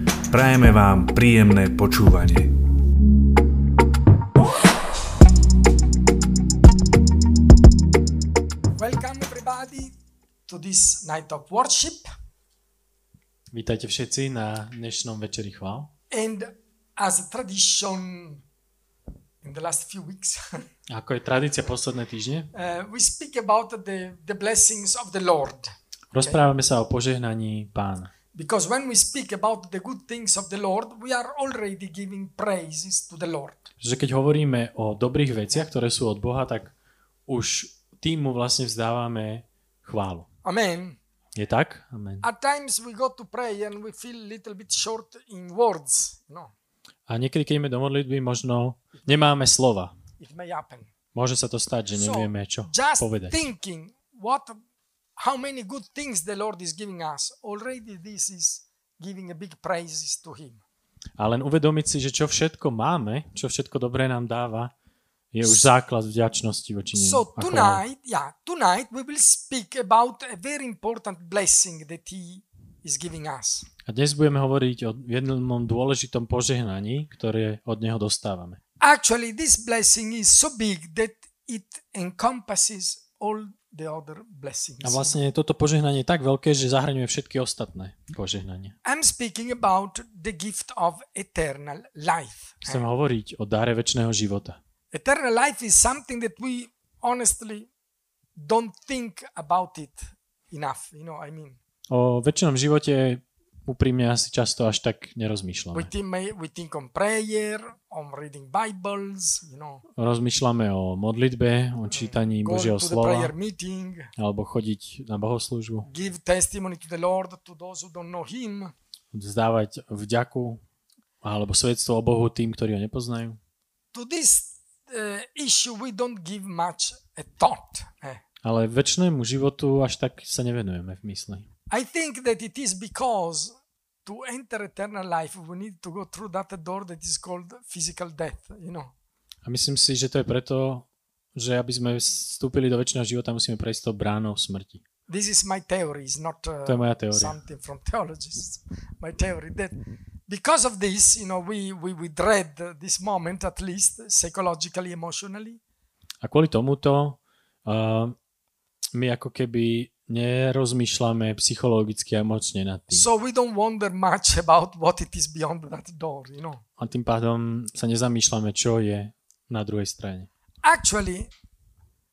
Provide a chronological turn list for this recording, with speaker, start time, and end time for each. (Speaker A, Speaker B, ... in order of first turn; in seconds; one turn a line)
Speaker A: 0.3-2.5
Speaker B: 8.8-9.9
Speaker B: 10.5-12.1
Speaker C: 13.5-15.9
Speaker B: 16.1-18.4
Speaker B: 19.4-20.6
Speaker C: 20.9-22.5
Speaker B: 22.5-26.4
Speaker C: 26.1-28.1
Speaker B: 28.3-33.7
Speaker C: 33.8-36.7
Speaker C: 37.3-40.3
Speaker B: 40.4-41.0
Speaker C: 41.4-42.2
Speaker B: 42.2-46.5
Speaker C: 47.1-49.9
Speaker B: 50.2-50.9
Speaker C: 51.1-53.5
Speaker B: 51.9-54.6
Speaker B: 55.2-60.6
Speaker C: 61.2-64.7
Speaker C: 65.3-67.8
Speaker B: 66.9-73.7
Speaker C: 73.9-78.6
Speaker B: 78.8-85.2
Speaker C: 84.8-88.8
Speaker B: 88.8-92.8
Speaker C: 92.7-94.6
Speaker B: 94.9-97.7
Speaker B: 98.4-101.6
Speaker C: 101.9-105.9
Speaker B: 105.7-109.8
Speaker C: 110.0-113.3
Speaker B: 111.9-114.1
Speaker C: 114.2-115.9
Speaker B: 115.9-118.7
Speaker C: 119.1-120.6
Speaker C: 121.2-123.4
Speaker B: 123.9-128.2
Speaker C: 128.4-131.5
Speaker B: 131.7-138.9
Speaker C: 139.4-144.8
Speaker B: 145.1-149.8
Speaker C: 146.7-147.4
Speaker B: 150.3-155.6
Speaker C: 156.2-158.2
Speaker C: 158.9-163.1
Speaker B: 162.9-166.6
Speaker C: 166.8-170.3
Speaker B: 170.6-171.3